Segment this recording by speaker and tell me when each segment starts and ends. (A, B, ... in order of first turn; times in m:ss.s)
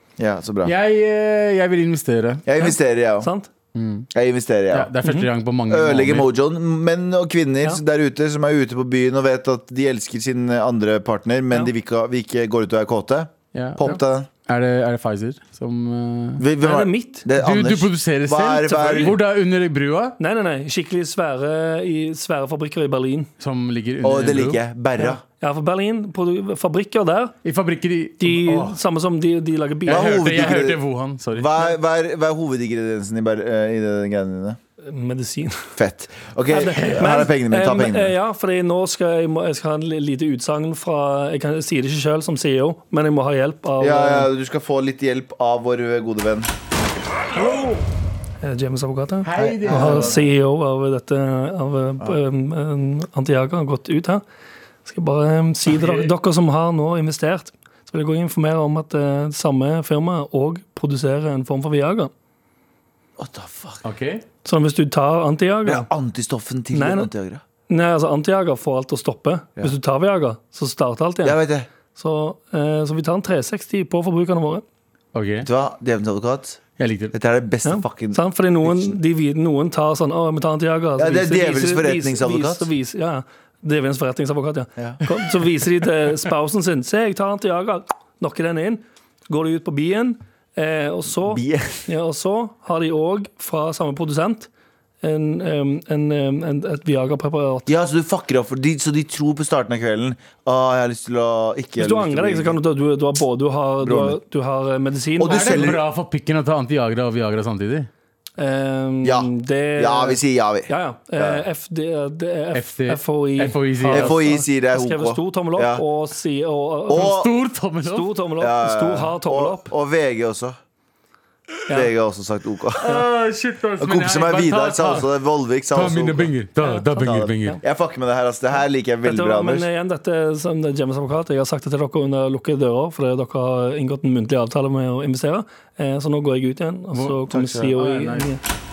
0:00.2-0:00.7 A
0:00.6-0:02.4 B
0:02.5-0:03.3 A
0:02.6-0:03.5 C
0:03.7-0:04.1 B
0:04.1-0:04.9 A
0:04.7-0:06.3 B
0:05.7-0:14.3 A
0:13.5-0:16.4 B
0:16.4-0:19.2 A
0:16.6-0:17.2 C
0:17.4-0:20.2 B
0:18.9-0:19.2 C
0:20.2-0:23.3 C
0:23.4-0:24.6 B
0:24.0-0:25.2 A
0:25.0-0:27.4 C
0:27.4-0:28.8 B
0:28.2-0:30.2 C
0:29.9-0:31.5 B
0:29.9-0:30.8 A
0:31.4-0:34.6 A
0:34.8-0:35.7 C
0:35.8-0:38.1 A
0:36.5-0:44.3 C
0:43.8-0:46.5 A
0:47.4-0:47.8 B
0:48.4-0:54.2 C
0:49.2-0:50.2 B
0:49.4-0:50.2 A
0:54.8-1:02.1 C
0:55.7-0:56.1 B
1:03.2-1:03.9 A
1:03.8-1:04.2 B
1:04.4-1:05.9 C
1:05.7-1:07.4 A
1:06.7-1:07.1 C
1:07.7-1:11.4 C
1:11.2-1:11.7 A
1:11.9-1:14.6 C
1:15.1-1:15.5 B
1:15.4-1:16.6 A
1:16.8-1:17.1 B
1:17.1-1:19.0 A
1:17.6-1:34.5 C
1:21.0-1:22.7 A
1:31.3-1:31.9 A
1:35.0-1:37.7 C
1:37.7-1:42.6 A
1:41.8-1:45.7 C
1:43.8-1:44.2 A
1:45.2-1:45.8 A
1:45.3-1:47.9 B
1:48.4-1:57.2 C
1:49.0-1:51.4 A
1:52.5-1:54.2 B
1:53.9-1:55.8 A
1:56.9-1:57.3 A
1:56.9-1:58.1 B
1:57.8-1:59.7 C
1:58.4-2:00.6 A
2:01.7-2:03.0 A
2:02.8-2:05.1 B
2:03.8-2:06.3 A
2:05.7-2:07.6 B
2:06.6-2:07.6 C
2:07.0-2:09.7 A
2:09.0-2:18.4 C
2:16.9-2:18.3 B
2:17.3-2:17.7 A